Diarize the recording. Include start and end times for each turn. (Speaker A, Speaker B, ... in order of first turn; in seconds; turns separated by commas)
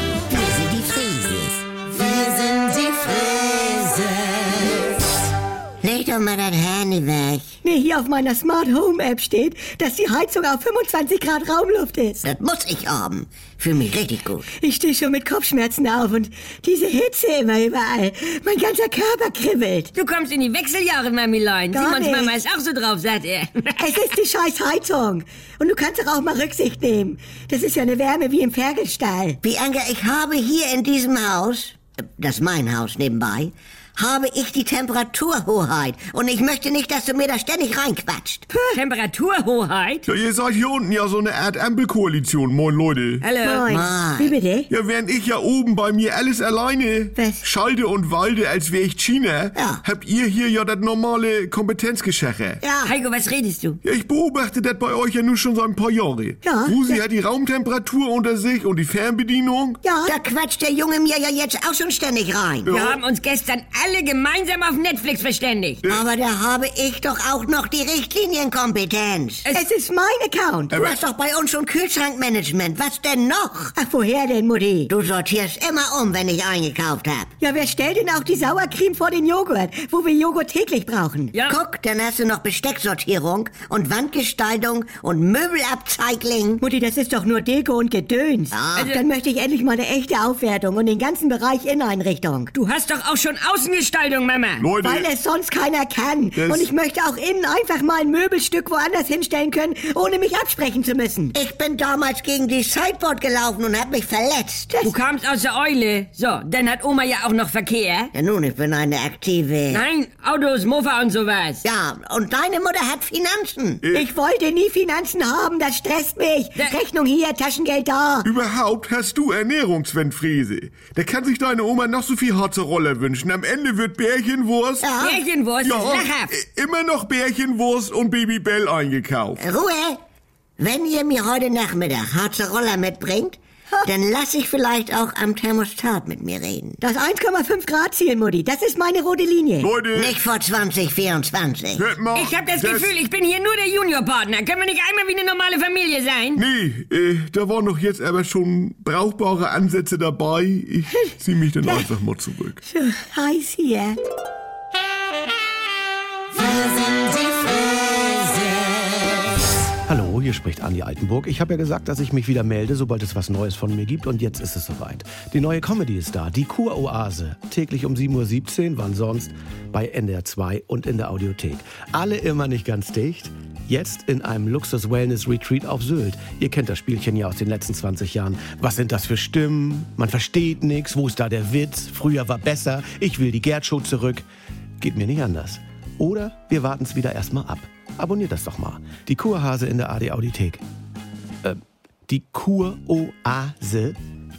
Speaker A: 0.3-5.0, Speaker A: 5.8-7.6, Speaker B: 7.6-12.2, Speaker A: 12.2-14.5, Speaker B: 14.5-19.9, Speaker C: 19.9-24.0, Speaker B: 21.7-22.4, Speaker B: 23.8-29.4, Speaker A: 29.4-38.5, Speaker B: 38.5-38.8, Speaker C: 38.7-40.1, Speaker D: 40.1-43.3, Speaker C: 43.2-43.7, Speaker B: 43.4-44.7, Speaker A: 43.7-44.3, Speaker D: 44.7-52.6, Speaker B: 47.2-47.5, Speaker A: 49.5-49.8, Speaker A: 52.6-53.0, Speaker C: 52.8-53.8, Speaker D: 53.9-59.9, Speaker B: 56.4-57.0, Speaker B: 59.8-60.2, Speaker A: 60.0-62.7, Speaker D: 62.6-63.0, Speaker C: 62.7-65.8, Speaker A: 65.9-69.5, Speaker B: 69.5-70.8, Speaker D: 70.7-71.0, Speaker A: 70.7-73.7, Speaker B: 73.8-74.9, Speaker A: 74.9-77.3, Speaker B: 77.4-81.3, Speaker C: 81.3-81.6, Speaker A: 81.5-86.6, Speaker B: 86.6-92.5, Speaker A: 88.5-88.9, Speaker C: 92.5-94.7, Speaker D: 94.6-95.1, Speaker B: 94.8-101.3, Speaker D: 96.4-96.7, Speaker A: 101.3-104.7, Speaker B: 104.7-105.0, Speaker C: 104.8-108.1, Speaker A: 108.1-109.8, Speaker C: 109.7-111.6, Speaker A: 111.6-113.8, Speaker B: 113.9-118.3, Speaker D: 118.2-125.0, Speaker B: 124.8-125.2, Speaker C: 125.0-126.3, Speaker D: 125.6-129.4, Speaker A: 129.4-130.0, Speaker A: 130.6-136.8, Speaker B: 136.8-139.7, Speaker D: 139.6-140.2, Speaker A: 139.9-141.8, Speaker D: 141.8-142.9, Speaker C: 142.1-146.4, Speaker D: 146.4-152.6, Speaker B: 150.9-151.8, Speaker B: 152.7-154.0, Speaker E: 159.9-184.3, Speaker E: 184.8-190.6, Speaker E: 191.4-194.0